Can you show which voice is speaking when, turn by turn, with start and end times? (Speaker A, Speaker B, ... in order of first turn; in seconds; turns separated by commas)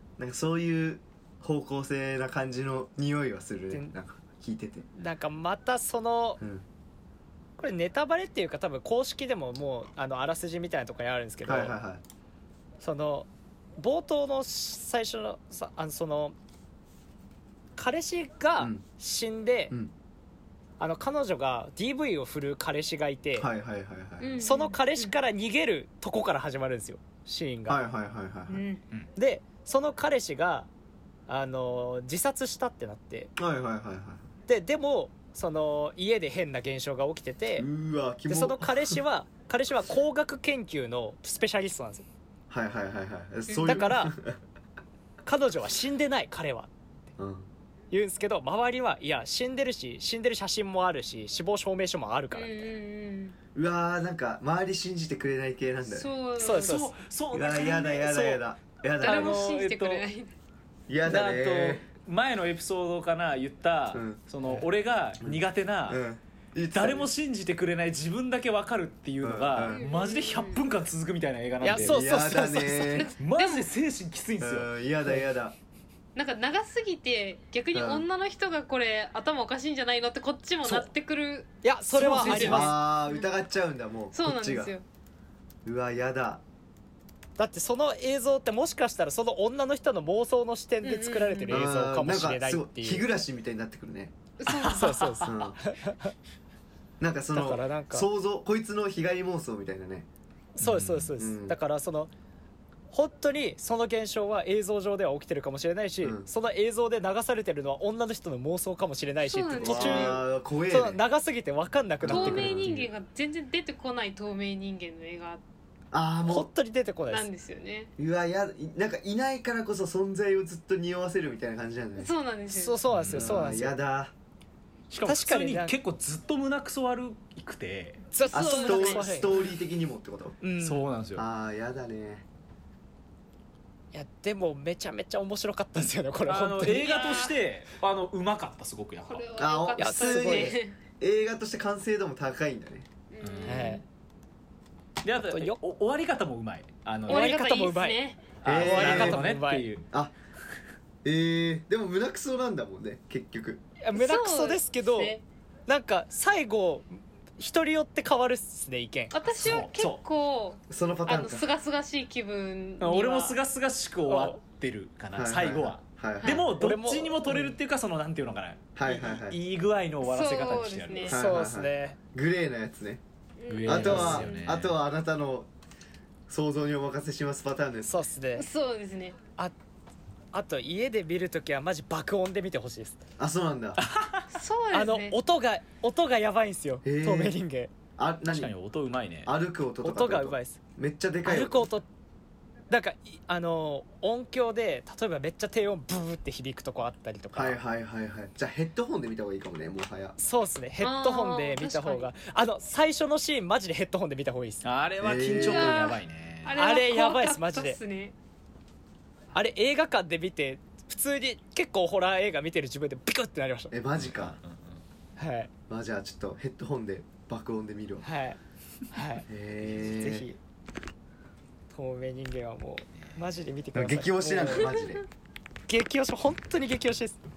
Speaker A: 0.2-4.9, Speaker B: 5.0-6.4, Speaker B: 7.6-11.8, Speaker A: 11.4-12.0, Speaker B: 12.8-16.4, Speaker B: 17.8-19.7, Speaker B: 20.8-23.5, Speaker A: 23.4-24.4, Speaker C: 24.2-25.1, Speaker B: 24.4-27.8, Speaker A: 27.7-28.6, Speaker C: 28.5-28.8, Speaker B: 29.2-30.7, Speaker B: 31.3-33.3, Speaker A: 33.4-34.2, Speaker B: 34.5-37.7, Speaker A: 37.6-39.0, Speaker B: 38.3-42.0, Speaker A: 42.5-44.4, Speaker C: 43.5-43.8, Speaker B: 43.6-44.1, Speaker B: 45.3-46.7, Speaker A: 47.2-47.5, Speaker B: 47.9-52.7, Speaker C: 52.3-53.4, Speaker A: 53.5-56.1, Speaker C: 55.9-56.8, Speaker B: 56.4-56.9, Speaker D: 56.5-58.4, Speaker A: 57.3-59.4, Speaker D: 59.0-60.1, Speaker C: 59.0-60.3, Speaker A: 60.9-61.9, Speaker D: 61.0-66.0, Speaker A: 63.9-64.2, Speaker A: 65.2-67.1, Speaker D: 66.7-72.1, Speaker A: 69.2-69.8, Speaker C: 69.7-70.6, Speaker B: 71.6-73.1, Speaker A: 71.8-73.1, Speaker C: 72.9-73.7, Speaker D: 73.2-74.7, Speaker A: 74.4-75.5, Speaker C: 76.2-83.3, Speaker A: 77.7-78.1, Speaker D: 80.6-80.9, Speaker B: 81.6-82.7, Speaker D: 82.0-82.6, Speaker A: 82.3-84.7, Speaker C: 84.1-84.8, Speaker A: 85.7-86.4, Speaker B: 87.4-93.0, Speaker C: 90.8-91.7, Speaker A: 91.5-94.1, Speaker C: 94.4-95.2, Speaker D: 94.5-95.1, Speaker B: 94.6-96.2, Speaker A: 95.2-95.6, Speaker A: 97.0-100.1, Speaker B: 97.3-98.1, Speaker B: 100.6-102.1, Speaker D: 100.6-101.1, Speaker A: 101.2-101.5, Speaker B: 102.9-112.7, Speaker A: 106.0-106.3, Speaker C: 109.2-110.2, Speaker A: 109.6-111.0, Speaker A: 112.0-112.9, Speaker C: 112.1-115.4, Speaker A: 115.9-116.5, Speaker B: 116.3-117.3, Speaker C: 117.1-117.9, Speaker A: 118.0-122.1, Speaker C: 122.0-122.8, Speaker B: 122.5-123.8, Speaker D: 122.9-123.4, Speaker A: 123.1-124.1, Speaker D: 124.9-128.0, Speaker B: 125.0-125.8, Speaker B: 128.1-129.3, Speaker C: 128.2-129.4, Speaker A: 128.3-130.4, Speaker B: 130.4-130.8, Speaker D: 130.6-131.3, Speaker A: 131.2-132.2, Speaker B: 133.9-137.1, Speaker D: 136.3-139.2, Speaker C: 136.8-137.3, Speaker C: 139.1-140.8, Speaker A: 139.4-142.9, Speaker B: 139.8-140.6, Speaker C: 143.1-143.8, Speaker D: 143.2-143.8, Speaker B: 143.4-143.8, Speaker D: 145.0-147.3, Speaker B: 145.2-145.6, Speaker C: 147.1-148.3, Speaker B: 147.1-148.0, Speaker D: 148.4-149.8, Speaker A: 148.4-149.2, Speaker B: 148.6-149.7, Speaker A: 151.0-153.6, Speaker B: 153.8-155.2, Speaker C: 153.9-155.2, Speaker B: 155.7-159.2, Speaker C: 159.1-163.4, Speaker D: 159.3-160.0, Speaker A: 160.7-161.5, Speaker D: 162.8-171.2, Speaker B: 164.1-164.4, Speaker A: 165.2-166.5, Speaker C: 166.2-166.5, Speaker B: 166.6-167.6, Speaker A: 168.8-169.4, Speaker C: 170.0-171.2, Speaker A: 171.1-173.0, Speaker B: 171.1-172.0, Speaker C: 173.4-174.5, Speaker D: 173.5-174.8, Speaker A: 173.7-175.5, Speaker B: 173.7-174.2, Speaker A: 176.3-177.9, Speaker B: 177.8-178.5, Speaker C: 178.4-179.2, Speaker B: 180.3-183.0, Speaker A: 183.2-183.8, Speaker D: 183.8-184.3, Speaker C: 184.3-185.2, Speaker B: 184.7-187.7, Speaker A: 186.8-187.4, Speaker A: 188.0-188.5, Speaker D: 188.3-189.3, Speaker A: 189.2-191.7, Speaker B: 189.8-190.6, Speaker B: 191.2-191.9, Speaker B: 192.7-197.6, Speaker A: 197.3-200.2, Speaker B: 200.2-204.6, Speaker C: 200.8-202.1, Speaker D: 204.6-206.6, Speaker A: 205.0-206.0, Speaker C: 205.3-208.1, Speaker B: 206.6-207.8, Speaker B: 209.3-213.7, Speaker A: 213.7-214.4, Speaker D: 214.0-214.8, Speaker B: 215.2-215.5, Speaker A: 215.7-218.1, Speaker B: 218.0-218.4, Speaker B: 218.9-219.3, Speaker A: 219.3-220.3, Speaker B: 219.8-220.4, Speaker B: 221.7-224.7, Speaker A: 223.7-225.1, Speaker B: 225.7-227.2